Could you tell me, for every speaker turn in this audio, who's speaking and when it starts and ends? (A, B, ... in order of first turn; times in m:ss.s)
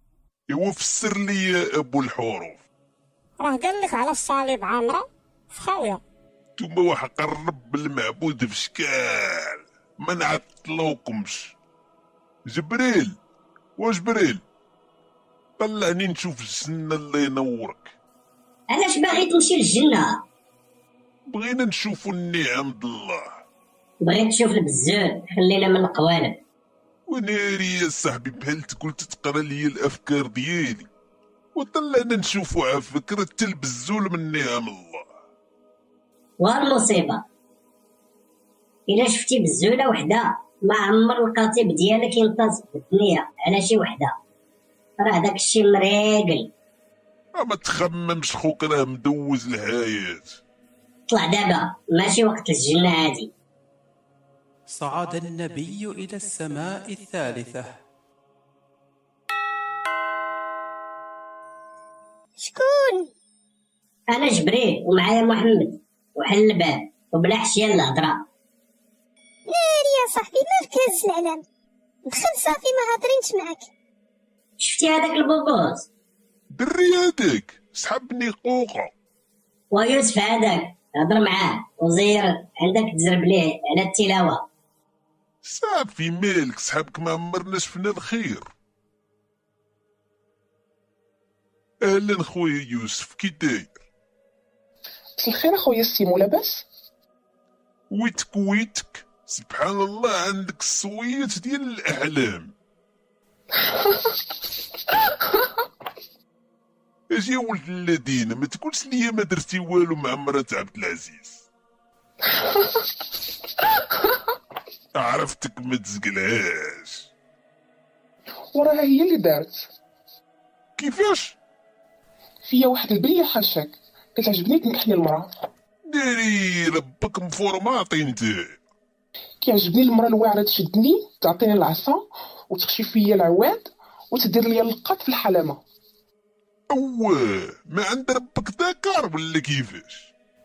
0:00.5-0:02.6 A
0:03.4-0:06.0 B
0:06.6-0:11.5 A
0:12.5-0:13.2 A
0:13.8-0:14.4 A
0:15.6-0:17.9 A
0:18.7-0:20.2 C
0:21.3-0:23.4 A
0:24.0-0:26.4 C
0:27.1-0:30.9 A
0:31.5-0:35.1 A
0:36.4-0:37.2 C
0:38.9-0:44.2 C
0:45.0-0:46.5 C
0:47.3-0:50.4 A
0:51.1-0:53.3 C
0:54.7-0:57.7 D
1:02.4-1:03.1 E
1:04.1-1:08.2 C
1:09.5-1:11.4 E
1:12.0-1:13.7 E
1:14.6-1:15.9 C
1:16.5-1:18.9 A
1:19.7-1:24.4 C
1:25.4-1:28.4 A
1:31.8-1:33.8 A
1:35.2-1:36.6 F
1:37.9-1:42.5 A
1:43.6-1:44.2 F
1:45.1-1:45.4 F
1:47.1-1:51.4 A
1:52.3-1:52.9 F
1:54.9-1:57.1 A
1:58.5-1:59.7 F
2:00.8-2:01.4 A
2:02.4-2:05.3 F
2:05.9-2:08.6 A
2:09.4-2:15.6 F
2:16.7-2:20.1 A